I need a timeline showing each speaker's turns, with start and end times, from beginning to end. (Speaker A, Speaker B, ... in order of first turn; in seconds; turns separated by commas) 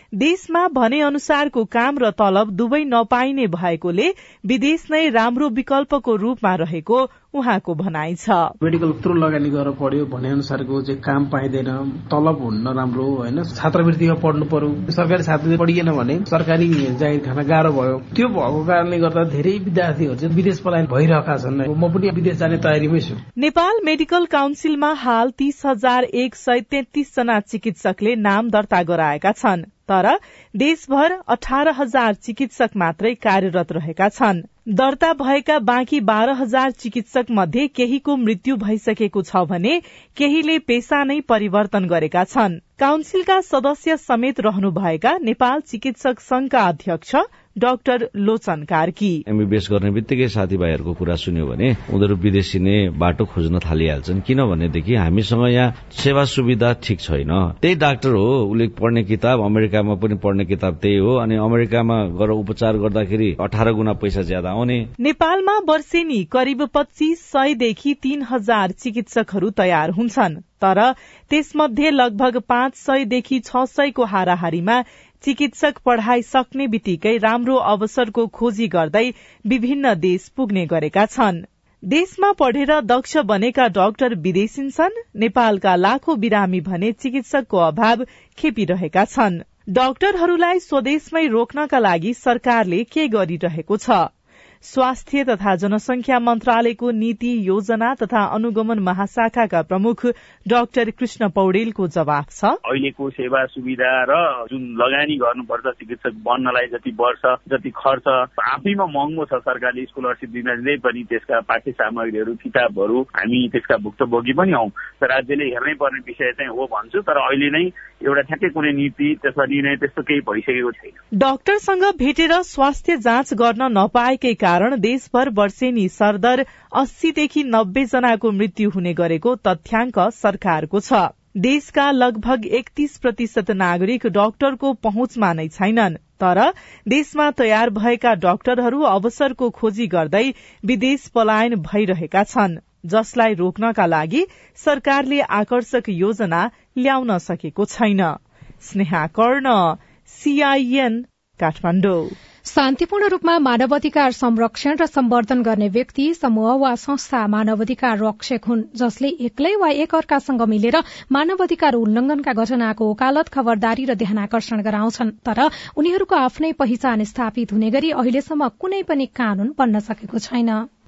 Speaker A: 0.2-8.5, Speaker B: 8.7-23.2, Speaker A: 23.4-49.2, Speaker C: 49.3-64.9, Speaker A: 65.0-94.1, Speaker A: 94.6-102.6, Speaker D: 102.7-121.0, Speaker A: 121.2-152.2, Speaker E: 152.5-170.6